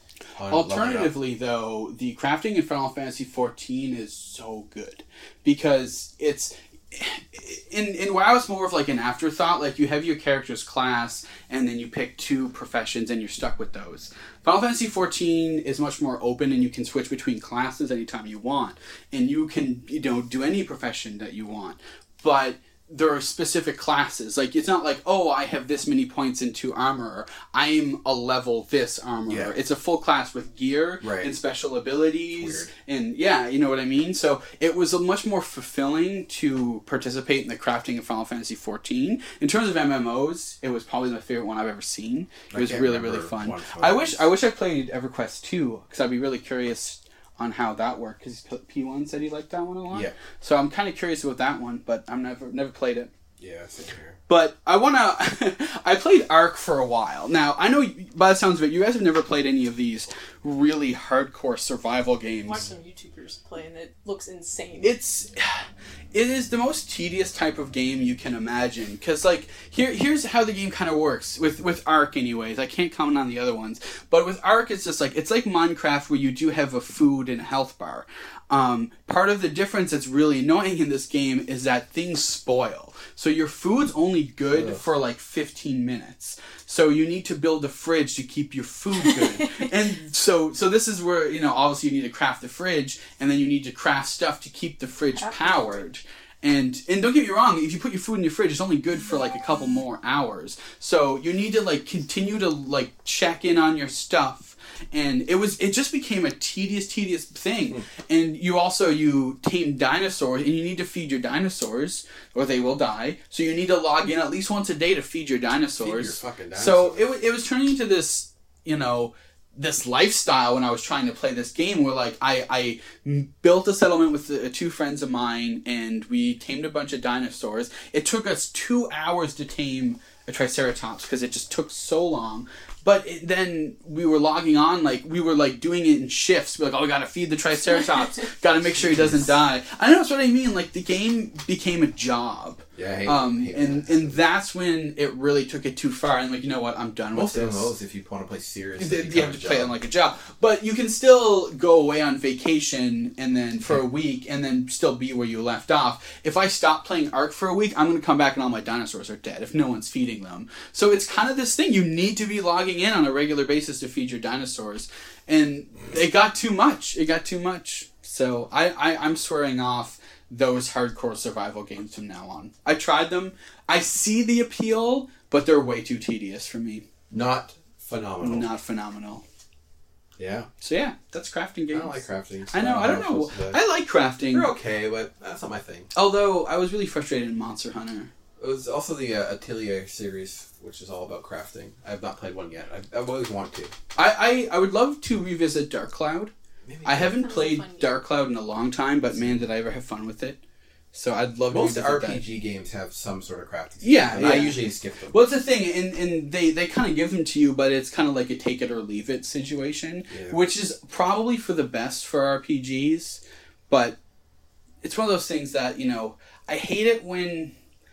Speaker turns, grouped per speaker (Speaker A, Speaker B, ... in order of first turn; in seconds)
Speaker A: 0.4-1.1, 29.3-29.6, 31.0-31.3, 32.3-32.7, 42.5-44.3, 49.9-50.2, 53.4-54.2, 84.5-84.8, 115.8-117.1, 138.8-139.3, 142.7-144.2, 147.1-149.7, 177.1-178.5, 180.2-180.5, 181.7-183.6, 184.3-185.9, 188.4-193.7, 196.7-197.3, 201.5-205.3, 210.1-210.4
Speaker B: 0.5-53.1, 54.3-62.6, 64.8-65.6, 66.1-147.7, 148.8-176.9, 178.2-179.2, 180.6-182.0, 182.5-184.5, 185.9-188.1, 193.9-196.3, 196.8-200.4, 200.9-202.2, 203.8-214.0, 214.8-217.5
Speaker C: 62.4-65.0, 95.2-95.9, 197.1-198.0